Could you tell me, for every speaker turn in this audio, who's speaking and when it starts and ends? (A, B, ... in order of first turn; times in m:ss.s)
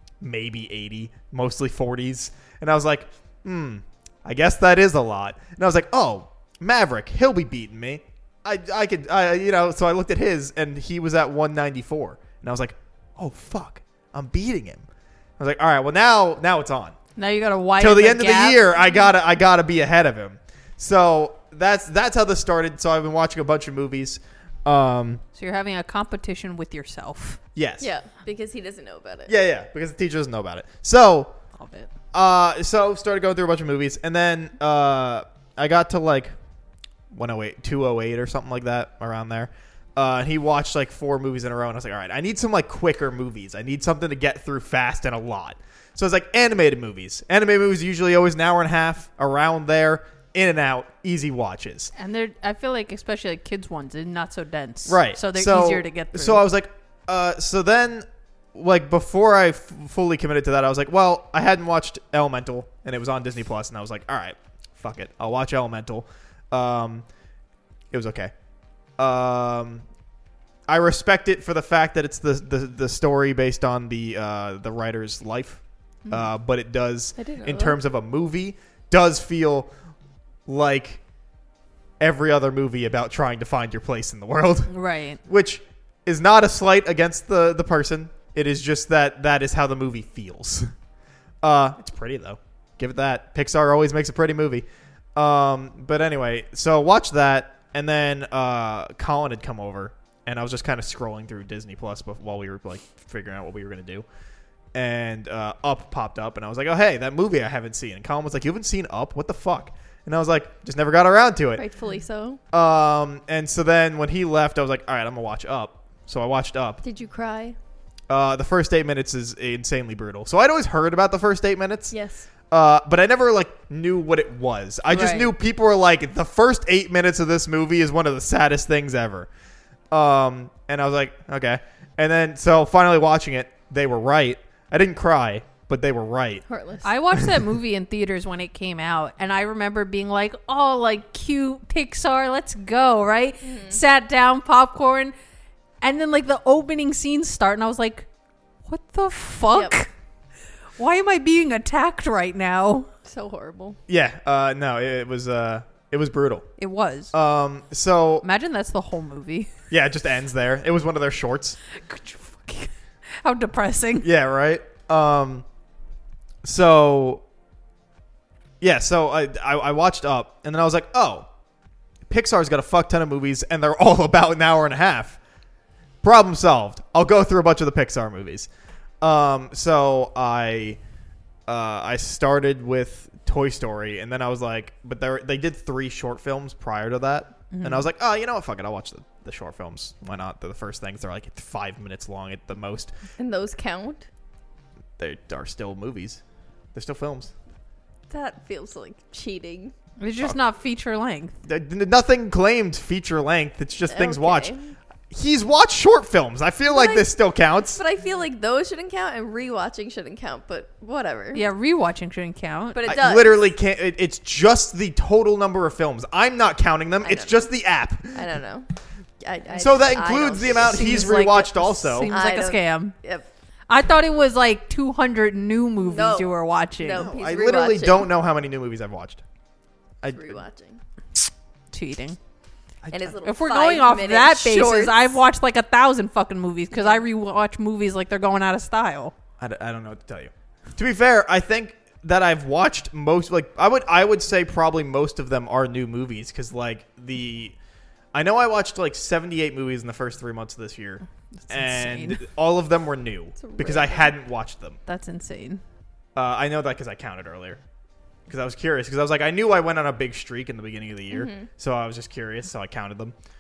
0:00.2-0:14.9 A
0:15.4-0:17.0 A
0:17.2-0:18.6 B
0:17.8-0:25.2 A
0:25.4-0:27.4 B
0:27.6-0:27.9 A
0:27.8-0:29.3 C
0:29.3-0:31.3 A
0:31.6-0:31.9 B
0:32.1-0:36.3 A
0:37.1-0:51.9 A
0:52.0-0:56.5 B
0:54.9-1:07.1 A
1:07.9-1:08.3 A
1:09.0-1:09.9 A
1:10.7-1:19.7 A
1:17.2-1:17.8 C
1:20.5-1:21.0 A
1:22.0-1:24.7 A
1:24.7-1:25.2 B
1:25.2-1:30.7 A
1:31.4-1:44.1 A
1:44.7-1:51.6 A
1:51.6-1:52.4 C
1:52.5-1:56.8 A
1:56.8-1:57.6 C
1:58.1-2:02.0 A
2:01.9-2:02.3 C
2:02.5-2:09.3 A
2:04.9-2:05.3 B
2:09.9-2:16.4 A
2:16.5-2:16.9 C
2:16.8-2:25.1 B
2:23.4-2:23.8 C
2:25.8-2:28.1 B
2:28.7-2:29.9 B
2:30.8-2:32.9 B
2:33.0-2:33.8 C
2:33.9-2:36.5 A
2:36.6-2:37.1 B
2:37.1-2:38.3 A
2:38.2-2:39.5 B
2:39.7-2:41.6 A
2:41.8-2:44.1 B
2:44.0-2:45.5 A
2:46.4-2:47.2 A
2:48.6-2:51.3 A
2:52.1-2:55.2 A
2:56.0-2:58.5 A
2:59.0-3:00.8 A
3:01.5-3:12.9 A
3:07.5-3:07.9 B
3:13.2-3:14.1 C
3:15.0-3:16.2 A
3:16.7-3:17.3 A
3:18.1-3:19.8 C
3:20.0-3:21.4 B
3:21.4-3:24.5 A
3:23.9-3:24.7 C
3:25.1-3:27.8 A
3:26.7-3:27.1 C
3:27.7-3:31.4 C
3:31.3-3:32.8 B
3:32.7-3:33.5 C
3:32.8-3:38.2 A
3:37.0-3:37.5 C
3:38.1-3:38.7 C
3:39.2-3:41.2 C
3:39.6-3:42.1 A
3:40.6-3:43.0 B
3:42.1-3:43.3 C
3:43.7-3:47.1 B
3:45.8-3:48.1 C
3:46.9-3:49.2 A
3:50.0-3:50.4 A
3:50.1-3:50.8 C
3:51.7-3:52.2 B
3:52.8-3:53.2 A
3:52.9-3:55.2 C
3:53.2-3:59.1 B
3:56.8-3:57.0 C
3:59.4-4:07.6 A
4:08.1-4:14.8 A
4:11.4-4:12.2 B
4:13.4-4:14.1 C
4:14.9-4:15.6 B
4:16.2-4:17.6 A
4:18.3-4:23.1 A
4:21.1-4:21.5 C